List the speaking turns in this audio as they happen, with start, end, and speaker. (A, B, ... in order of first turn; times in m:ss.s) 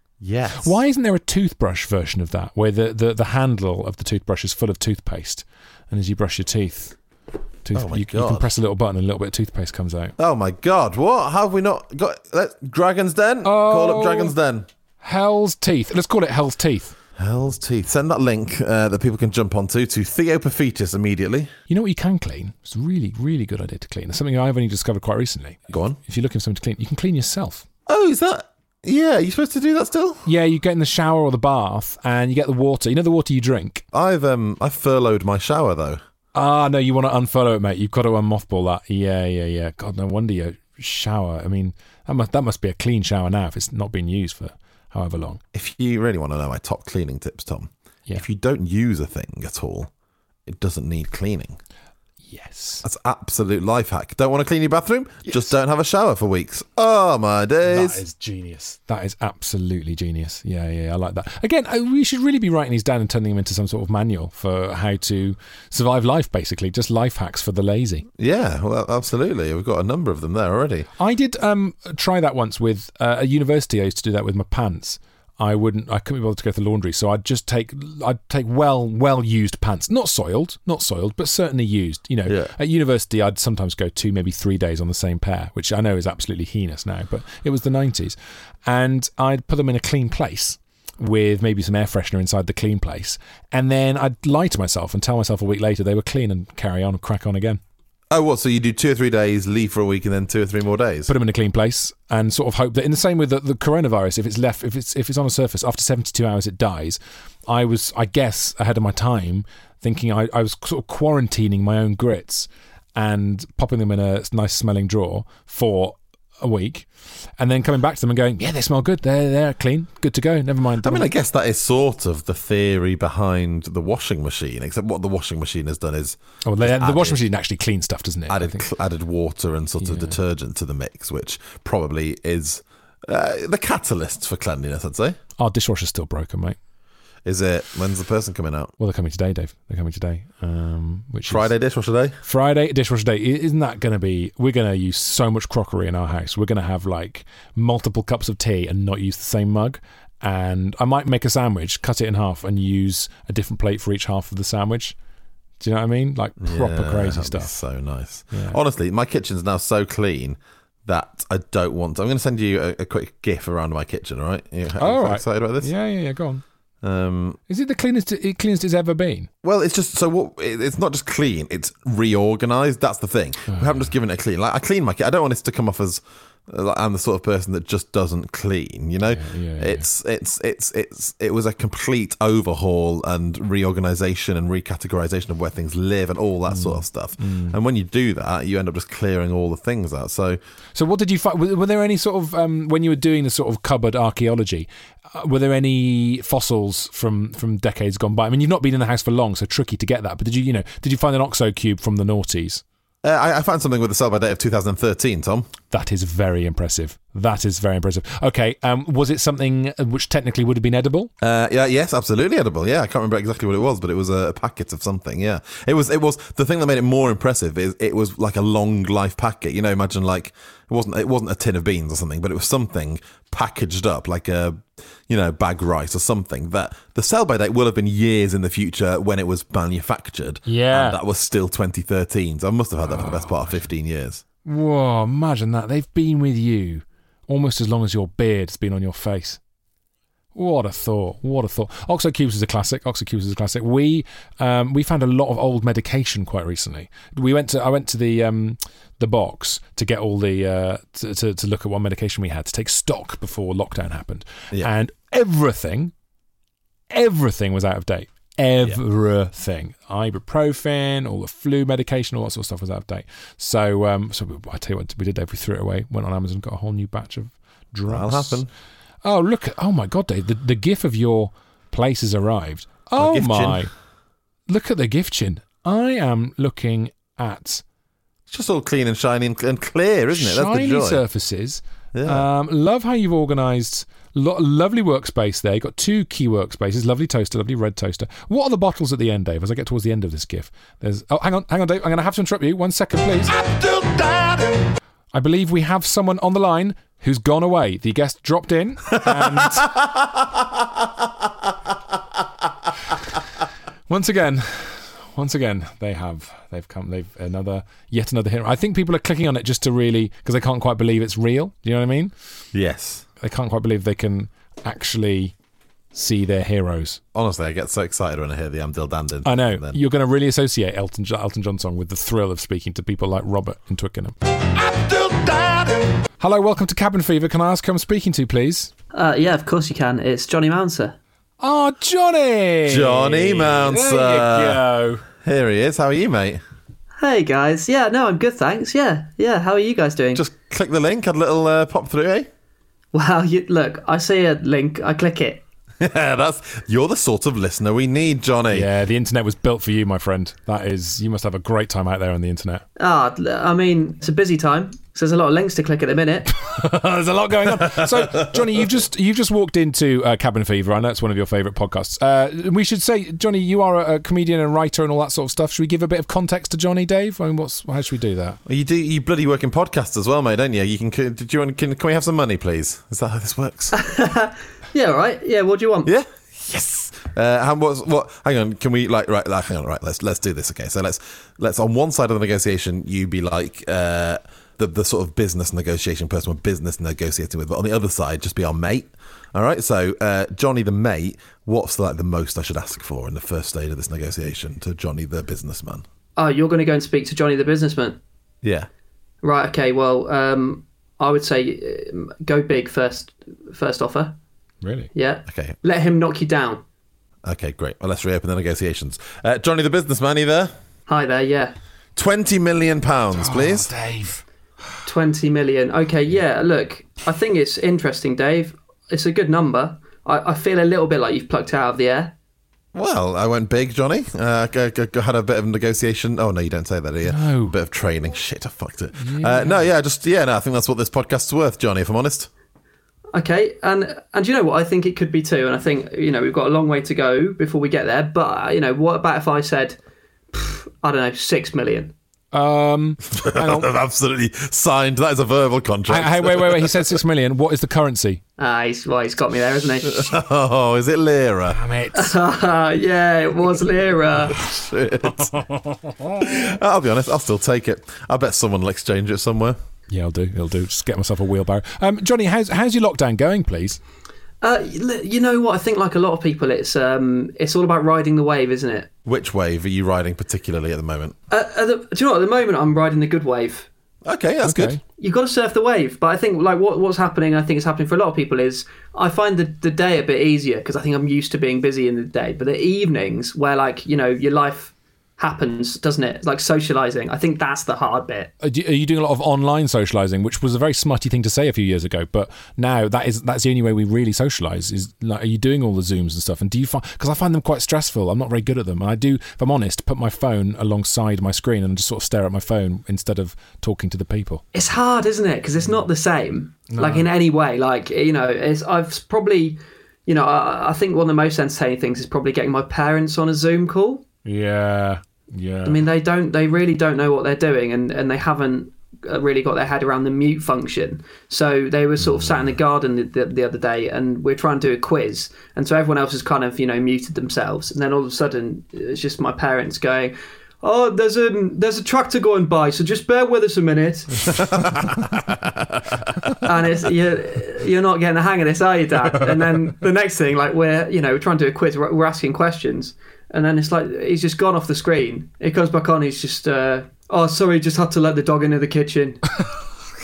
0:00.2-0:00.8 A
0:00.6-0:07.0 B
0:07.6-0:10.1 B
0:07.7-0:08.5 A
0:10.2-0:14.7 A
0:13.4-0:14.3 B
0:15.0-0:16.9 B
0:17.2-0:21.5 A
0:21.7-0:27.6 B
0:25.7-0:26.0 A
0:27.9-0:30.2 A
0:30.2-0:33.8 B
0:33.9-0:36.0 A
0:36.3-0:45.4 B
0:45.5-0:49.9 A
0:50.4-0:51.6 A
0:52.3-0:52.8 B
0:52.8-0:58.0 A
0:57.6-1:08.1 B
1:08.2-1:10.9 A
1:11.0-1:37.6 B
1:22.2-1:22.5 A
1:38.1-1:41.1 A
1:41.1-1:56.9 B
1:57.4-2:01.1 B
2:00.8-2:07.2 A
2:06.4-2:08.6 B
2:08.3-2:15.2 A
2:09.8-2:10.2 B
2:15.4-2:16.6 B
2:17.2-2:18.7 A
2:18.8-2:21.5 B
2:21.3-2:22.2 A
2:22.2-2:34.9 B
2:35.6-2:37.5 B
2:36.4-2:45.7 A
2:38.3-2:38.6 B
2:44.8-2:46.4 B
2:46.8-2:47.4 A
2:47.5-2:49.3 B
2:49.4-3:10.4 A
2:53.5-2:53.8 B
2:59.1-2:59.8 B
3:06.5-3:07.6 B
3:10.7-3:22.6 B
3:23.0-3:25.5 A
3:25.7-3:31.1 B
3:31.2-3:54.2 A
3:50.5-3:51.0 B
3:52.9-3:53.6 B
3:54.4-3:59.4 B
4:00.3-4:15.9 B
4:16.9-4:28.4 B
4:27.9-4:28.5 A
4:29.0-4:33.7 B
4:33.0-4:33.7 A
4:34.5-4:37.6 B
4:38.3-4:41.0 A
4:40.1-4:53.3 B
4:41.9-4:42.3 A
4:55.1-4:59.6 B
4:59.0-4:59.8 A
5:03.9-5:12.1 B
5:12.5-5:13.0 A
5:13.2-5:15.3 B
5:15.9-5:17.0 B
5:17.1-5:19.8 A
5:19.2-5:24.1 B
5:26.2-5:28.7 B
5:28.9-5:31.0 C
5:31.4-5:35.0 B
5:32.6-5:34.6 A
5:35.2-5:36.4 A
5:37.0-5:40.2 C
5:40.1-5:42.3 A
5:42.9-5:45.4 C
5:45.8-5:48.7 A
5:48.5-5:52.6 B
5:52.8-5:56.3 C
5:56.3-6:08.4 B
5:57.6-5:58.4 A
6:08.4-6:13.8 A
6:13.7-6:15.9 C
6:15.8-6:35.8 A
6:36.2-6:38.0 C
6:38.4-6:38.7 A
6:39.2-6:44.2 C
6:44.6-6:44.9 B
6:44.9-6:46.6 C
6:45.3-6:45.6 A
6:47.2-6:50.5 A
6:50.9-6:51.5 C
6:52.0-6:53.7 A
6:53.1-6:54.2 B
6:54.8-7:02.1 C
7:02.7-7:12.3 A
7:07.0-7:07.6 B
7:09.0-7:09.7 B
7:13.1-7:19.8 C
7:20.3-7:21.9 C
7:22.3-7:23.7 B
7:23.1-7:27.0 A
7:25.9-7:28.2 B
7:28.4-7:30.1 C
7:29.8-7:31.6 A
7:31.5-7:32.1 B
7:31.9-7:34.4 C
7:34.3-7:35.4 A
7:35.4-7:35.9 B
7:36.2-7:39.6 A
7:39.9-7:43.8 B
7:44.4-7:48.9 C
7:49.0-7:51.2 A
7:51.3-7:53.7 C
7:54.0-7:54.8 A
7:54.4-7:54.8 B
7:55.0-8:08.3 C
8:08.4-8:24.4 B
8:24.5-8:34.0 C
8:26.7-8:27.1 B
8:34.2-8:35.8 B
8:35.6-8:54.3 C
8:42.0-8:42.4 B
8:54.3-8:55.6 A
8:56.4-9:09.2 C